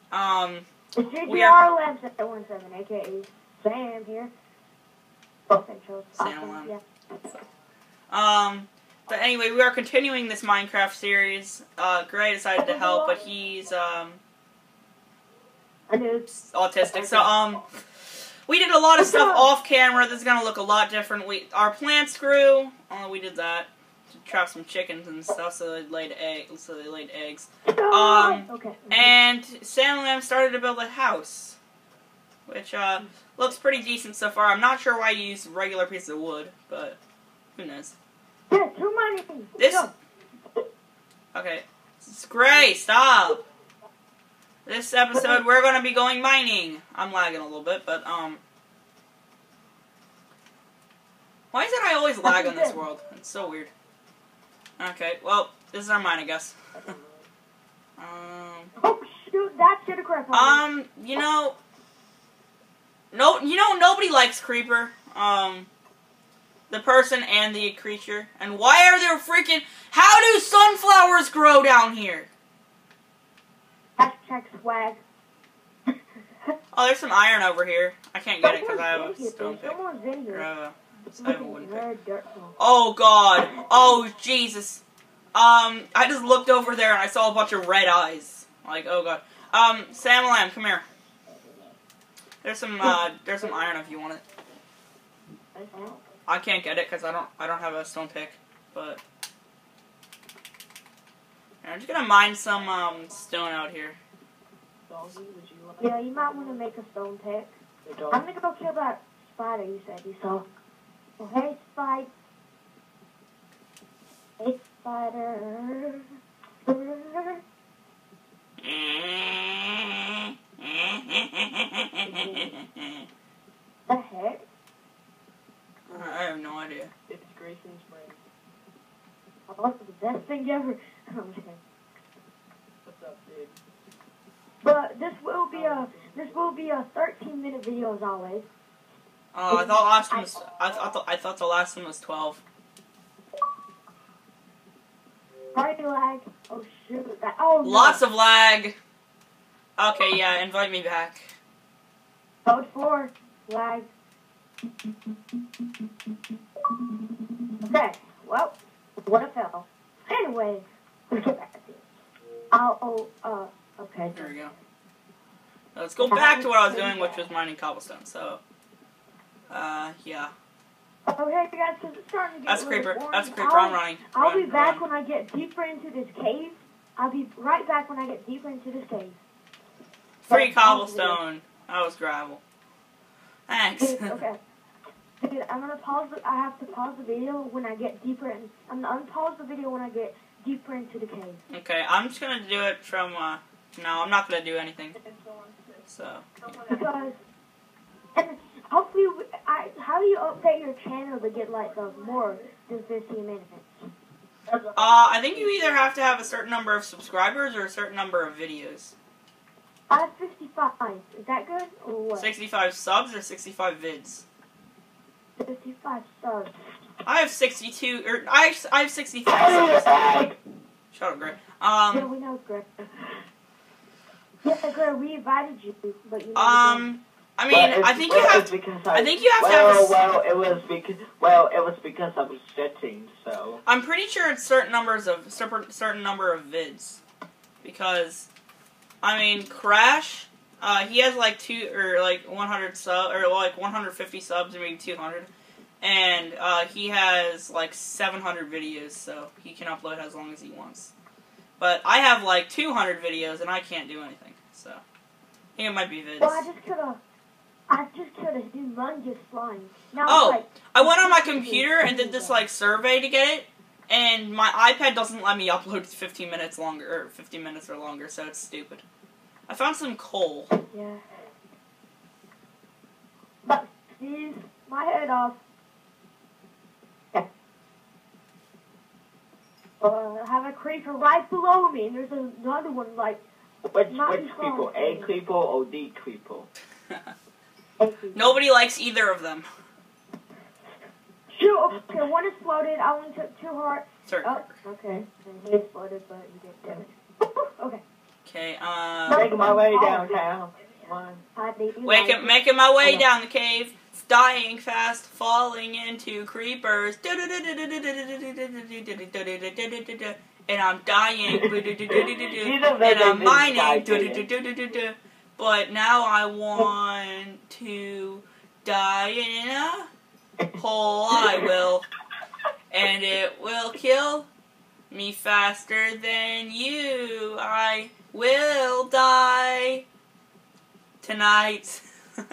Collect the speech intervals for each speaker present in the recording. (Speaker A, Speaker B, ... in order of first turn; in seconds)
Speaker A: 0.1-0.7, 1.2-1.6, 6.2-6.7, 8.1-14.2, 16.3-17.6, 18.5-31.6, 32.5-37.0, 37.5-37.9, 39.6-39.9, 41.3-43.4, 44.6-48.4, 51.5-53.7, 54.8-56.6, 58.0-58.7, 60.3-61.6, 63.1-65.7, 66.7-72.3, 76.7-81.8, 82.6-84.8, 85.3-90.8, 92.4-94.2, 96.3-99.0, 101.6-104.0, 118.6-123.0, 125.9-126.9, 139.3-142.4, 147.6-148.8, 149.8-151.3, 164.1-164.5, 165.7-168.4, 169.5-170.3, 172.5-174.8, 180.3-182.4, 183.5-184.2, 191.5-195.0, 195.9-196.2, 204.7-208.9, 212.2-214.2, 217.1-220.0, 220.9-222.1, 226.3-230.0, 233.6-237.0, 237.6-238.3, 239.0-245.3, 245.8-250.9, 251.6-254.8, 255.6-256.5, 260.0-268.8, 269.5-270.5, 288.1-289.5, 294.1-294.5, 298.2-299.3, 301.8-319.9, 320.6-321.8, 322.7-324.3, 324.9-329.8, 331.0-331.8
Speaker B: 1.0-4.3, 5.5-6.8, 12.6-13.2, 15.9-16.3, 16.9-17.3, 19.0-19.5, 27.7-29.1, 38.5-39.9, 45.1-45.4, 52.2-52.8, 58.8-60.6, 74.0-75.0, 78.4-80.5, 81.2-82.5, 95.7-96.0, 105.8-107.5, 108.1-110.5, 111.2-112.1, 114.4-116.1, 116.6-117.4, 122.0-122.5, 123.9-124.5, 129.5-131.6, 134.6-138.4, 139.5-140.2, 145.5-148.0, 152.4-153.9, 157.7-161.8, 162.5-164.3, 166.0-167.2, 171.1-179.2, 180.3-181.2, 183.8-184.4, 185.2-191.4, 196.7-197.2, 198.2-203.7, 209.9-212.3, 215.4-216.5, 221.9-222.9, 224.4-226.9, 256.2-257.0, 257.7-262.4, 270.7-271.0, 273.4-275.4, 279.8-283.2, 283.9-285.1, 287.8-288.4, 291.3-297.8, 299.1-300.2, 301.4-303.1
Speaker C: 95.5-95.9, 104.9-106.6, 107.8-108.2, 125.9-126.2, 127.1-128.2, 132.8-133.6, 135.5-136.4, 195.2-195.6, 204.5-205.5, 219.3-220.4, 227.5-233.6, 283.6-286.5, 299.1-301.2, 311.4-314.3, 321.1-321.5